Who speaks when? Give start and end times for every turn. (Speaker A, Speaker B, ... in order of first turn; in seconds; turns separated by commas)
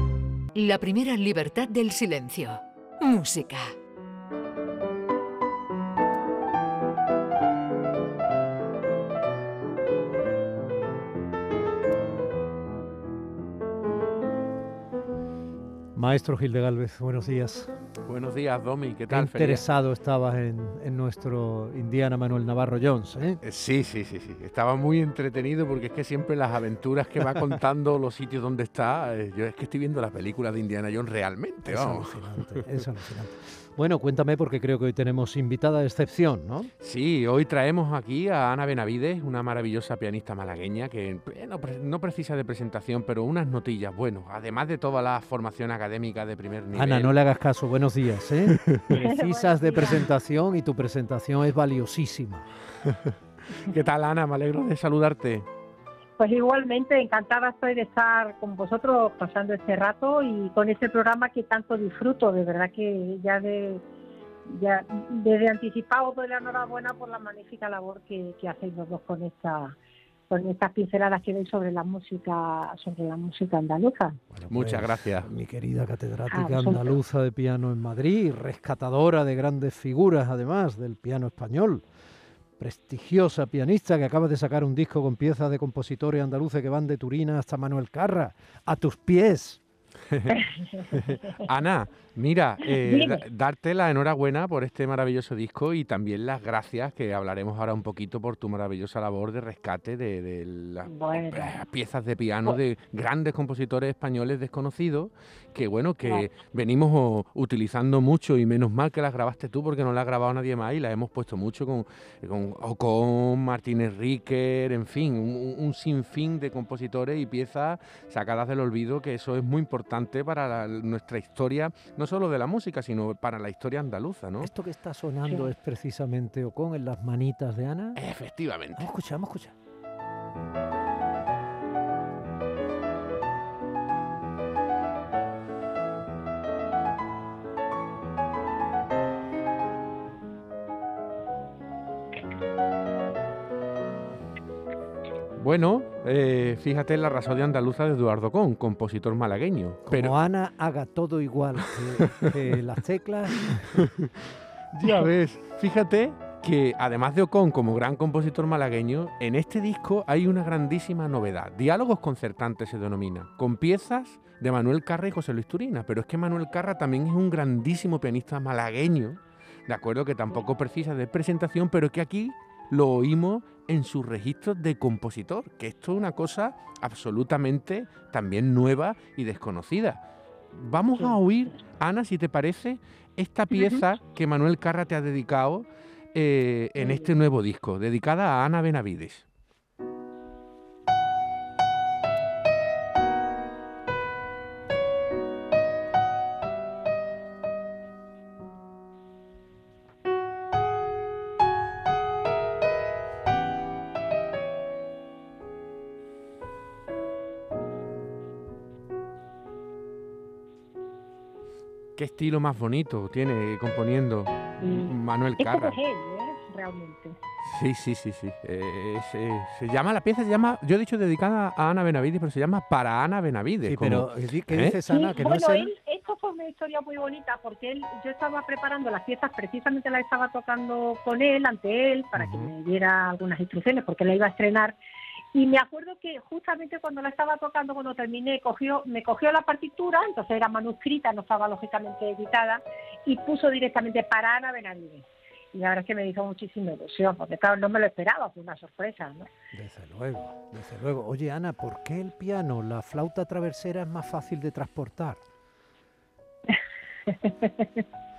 Speaker A: 0.5-3.8, Speaker B: 15.9-17.7, Speaker C: 18.1-19.6, Speaker B: 19.1-23.4, Speaker C: 23.4-32.8, Speaker B: 31.7-36.7, Speaker C: 36.8-47.1, Speaker B: 46.7-52.5, Speaker D: 49.0-50.1, Speaker C: 52.9-55.5, Speaker D: 56.2-63.8, Speaker D: 64.5-69.8, Speaker D: 70.3-74.2, Speaker B: 74.3-81.8, Speaker C: 74.5-75.3, Speaker D: 76.3-77.0, Speaker B: 82.6-89.6, Speaker D: 90.3-91.3, Speaker C: 90.9-124.5, Speaker D: 92.7-93.2, Speaker D: 100.9-101.6, Speaker B: 124.4-128.0, Speaker D: 125.2-125.5, Speaker C: 128.0-128.9, Speaker B: 128.8-129.5, Speaker C: 145.4-150.2, Speaker B: 149.9-153.8, Speaker C: 153.8-189.2, Speaker D: 183.5-183.8, Speaker D: 186.8-187.1, Speaker C: 212.0-215.8, Speaker D: 214.6-217.2, Speaker C: 217.4-224.8, Speaker B: 223.6-225.7, Speaker D: 224.9-234.8, Speaker B: 232.2-232.5, Speaker D: 235.3-249.3, Speaker B: 249.5-255.2, Speaker D: 256.5-257.8